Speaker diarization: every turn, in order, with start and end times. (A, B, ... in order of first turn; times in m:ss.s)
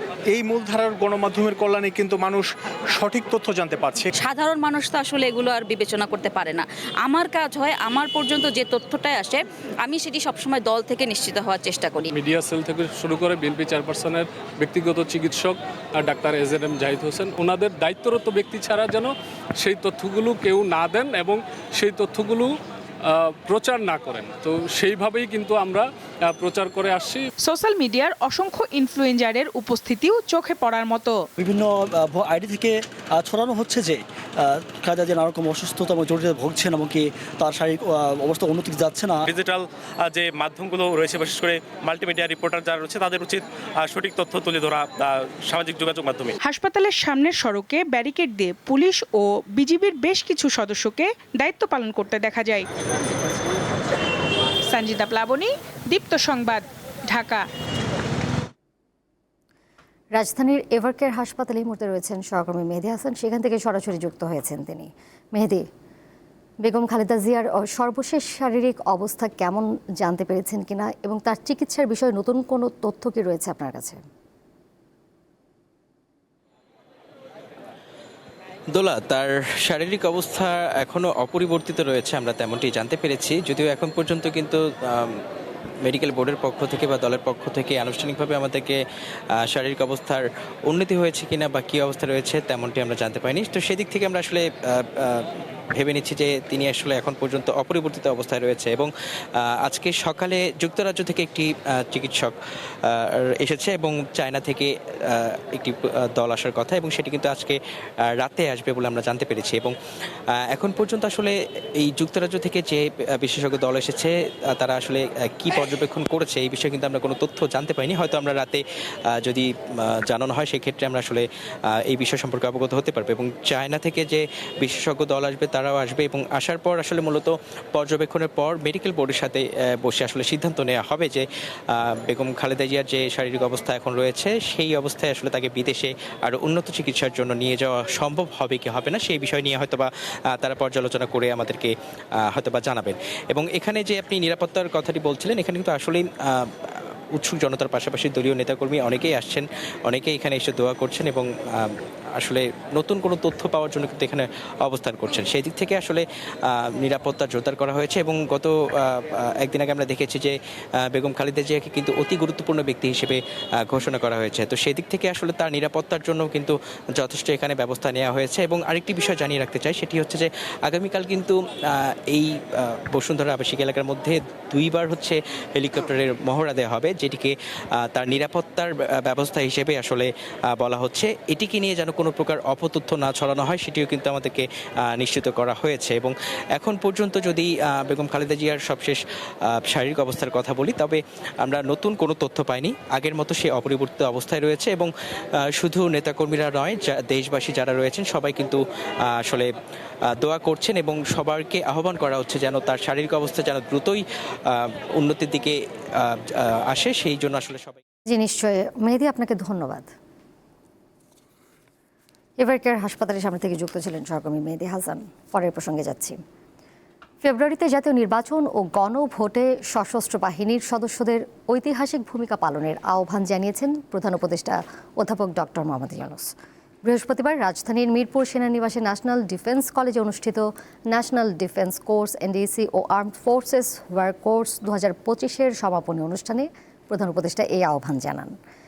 0:00.3-0:04.1 A
0:04.2-0:12.1 B
0:12.1-0:22.5 C
0:23.4-0:27.2 C
0:27.5-0:31.2 D
0:31.4-0:39.3 E
0:40.5-0:41.2 F
0:42.0-0:42.7 F
0:43.9-0:44.6 F
0:45.5-0:46.1 F
0:46.4-0:52.7 D
0:54.7-0:57.4 D
1:00.2-1:05.6 G
1:06.6-1:14.0 G
1:18.8-1:25.2 H
1:25.8-1:28.8 H
1:29.5-1:42.3 H
1:42.9-1:47.6 H
1:48.1-1:49.7 H
1:50.5-1:58.6 H
1:59.2-2:01.2 H
2:01.8-2:21.7 H
2:22.3-2:40.3 H
2:40.9-2:57.3 H
2:57.8-3:09.0 H
3:09.7-3:14.9 H
3:15.6-3:18.6 H
3:20.2-3:27.8 H
3:28.1-3:29.9 G
3:32.4-3:36.2 G
3:37.2-3:46.3 G
3:46.8-3:58.3 G